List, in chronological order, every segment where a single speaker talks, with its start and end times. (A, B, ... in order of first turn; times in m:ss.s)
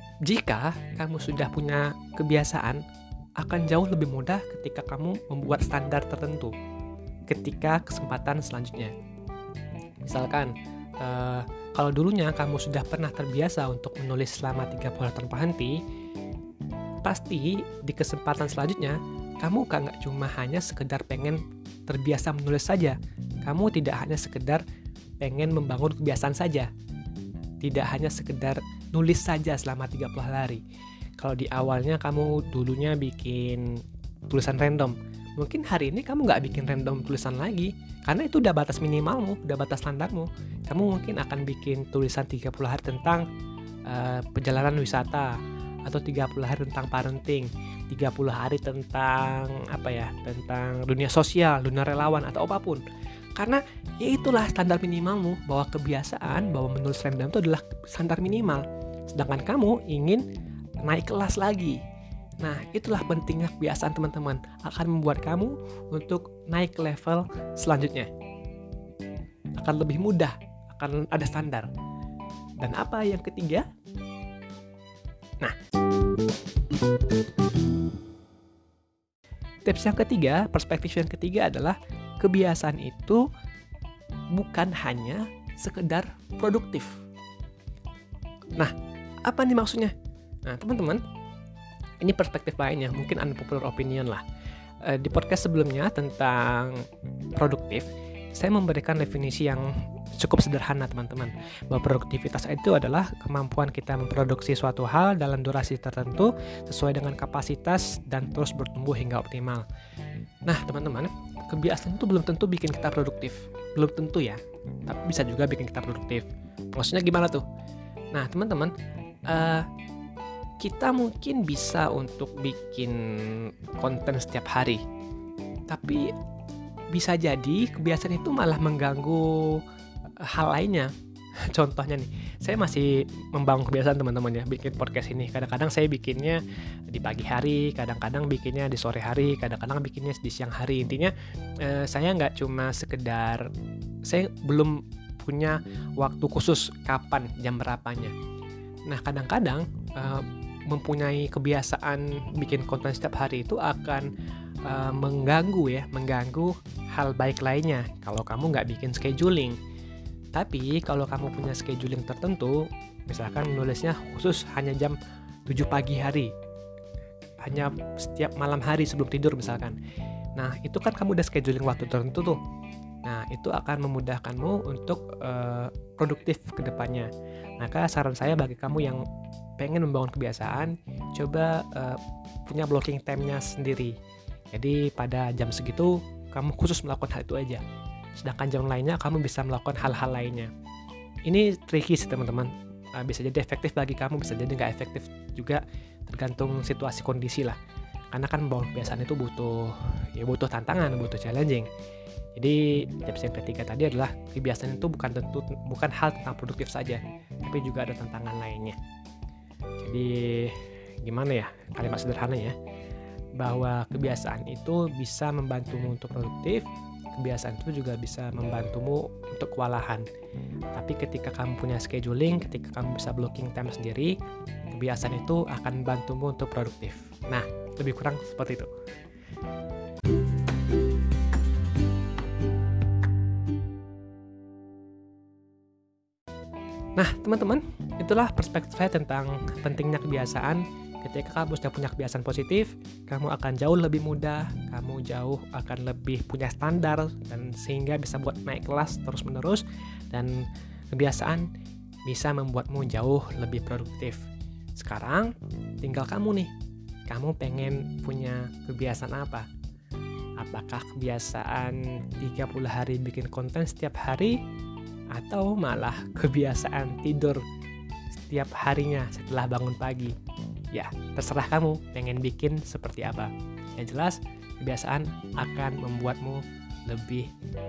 0:00.2-0:02.8 A
0:03.4-0:06.5 A
0:07.3-0:08.9 A
0:10.0-0:15.8 A
0:17.0-0:24.6 A
0:25.2-0:26.7 A
0:27.6-0:30.6 A
0:31.2-0:33.8 A
0:34.3-0:43.2 A
0:43.9-0:52.8 A
0:53.4-1:00.2 A
1:00.8-1:01.8 A
1:02.4-1:08.1 A
1:09.6-1:11.7 A
1:12.6-1:13.7 A
1:19.6-1:23.2 A
1:24.3-1:27.0 A
1:28.6-1:29.9 A
1:30.5-1:31.0 A
1:32.0-1:34.2 A
1:34.8-1:49.7 A
1:50.5-1:57.4 A
1:58.1-1:58.7 A
1:59.3-1:59.7 A
2:00.6-2:04.8 A
2:05.7-2:06.1 A
2:06.9-2:09.6 A
2:10.2-2:10.9 A
2:11.5-2:23.5 A
2:24.0-2:28.1 A
2:28.9-2:34.1 A
2:34.6-2:39.6 A
2:40.3-2:46.3 A
2:47.4-2:49.8 A
2:50.4-2:52.4 A
2:53.0-2:59.0 A
2:59.6-3:04.0 A
3:04.5-3:07.6 A
3:08.2-3:10.5 A
3:11.3-3:17.6 A
3:18.1-3:21.7 A
3:22.4-3:28.8 A
3:29.8-3:32.6 A
3:33.4-3:40.1 A
3:40.7-3:44.2 A
3:44.7-3:48.7 A
3:57.0-4:11.5 A
4:12.1-4:14.2 A
4:14.8-4:16.5 A
4:17.1-4:19.5 A
4:20.4-4:24.4 A
4:25.1-4:27.4 A
4:28.1-4:30.2 A
4:30.7-4:37.3 A